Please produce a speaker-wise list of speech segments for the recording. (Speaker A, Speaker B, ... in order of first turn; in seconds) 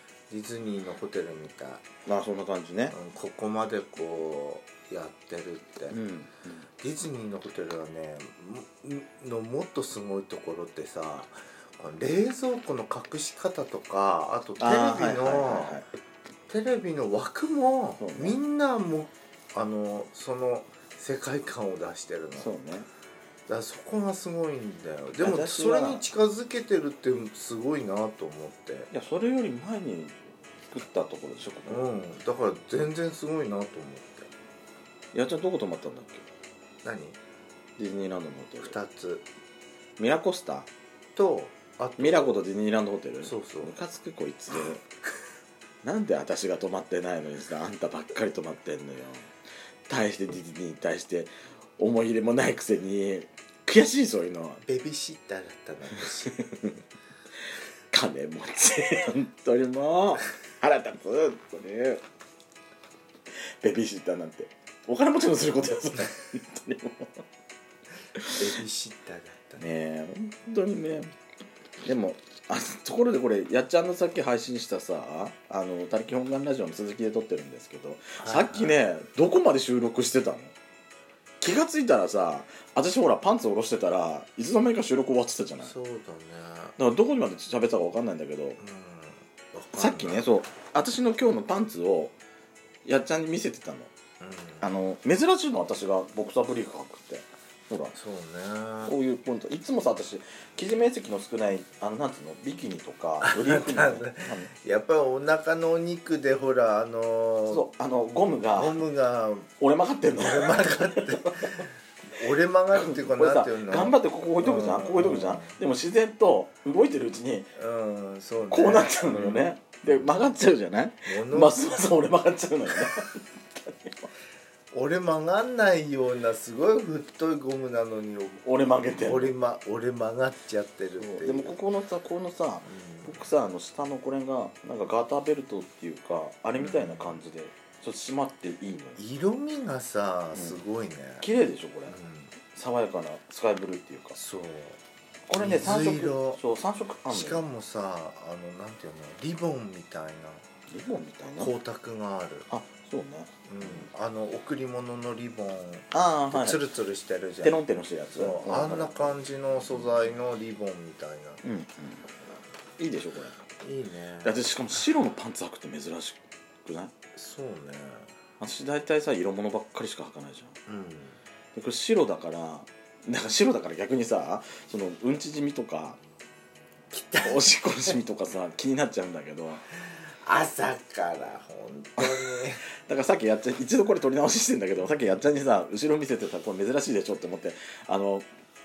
Speaker A: 0.3-1.8, 2.9-6.0, 6.8-15.8, 16.5-22.5, 23.5-28.9, 31.7-34.3, 36.8-37.2, 38.6-39.3, 41.1-42.4, 43.2-43.7, 54.6-56.3, 68.3-69.6, 78.2-78.8, 85.6-86.8, 88.6-90.3, 94.2-94.7, 97.9-98.9, 103.2-107.7, 108.5-109.5, 110.2-115.6, 117.6-120.3, 121.1-121.8, 124.7-131.6, 132.6-133.3, 136.6-137.2, 139.0-141.3, 141.9-142.3, 144.2-144.8, 145.3-146.4, 147.1-150.4, 151.4-152.5, 153.5-161.4, 163.6-164.4, 167.2-168.1, 170.7-171.2, 176.9-178.0, 179.8-182.6
Speaker B: 2.1-3.0, 5.9-6.7, 14.6-15.9, 18.0-18.4, 22.4-22.9, 25.2-26.0, 28.9-31.9, 35.1-36.3, 37.8-38.7, 40.0-40.7, 42.0-44.8, 45.8-49.3, 49.9-54.6, 56.5-56.7, 57.9-62.0, 63.6-67.2, 69.6-71.1, 71.8-80.5, 81.4-85.7, 86.8-88.6, 89.8-92.2, 92.8-93.9, 94.6-98.0, 98.9-104.5, 107.5-108.8, 109.6-111.5, 112.8-117.5, 118.5-124.1, 128.4-129.3, 131.0-139.0, 140.3-140.6, 141.2-142.0, 142.5-144.2, 145.3-147.4, 150.7-151.5, 152.5-153.9, 155.9-156.6, 157.4-159.2, 161.4-162.1, 162.8-163.4, 164.2-166.9, 168.4-170.6, 171.5-176.0, 177.2-179.6, 182.0-188.3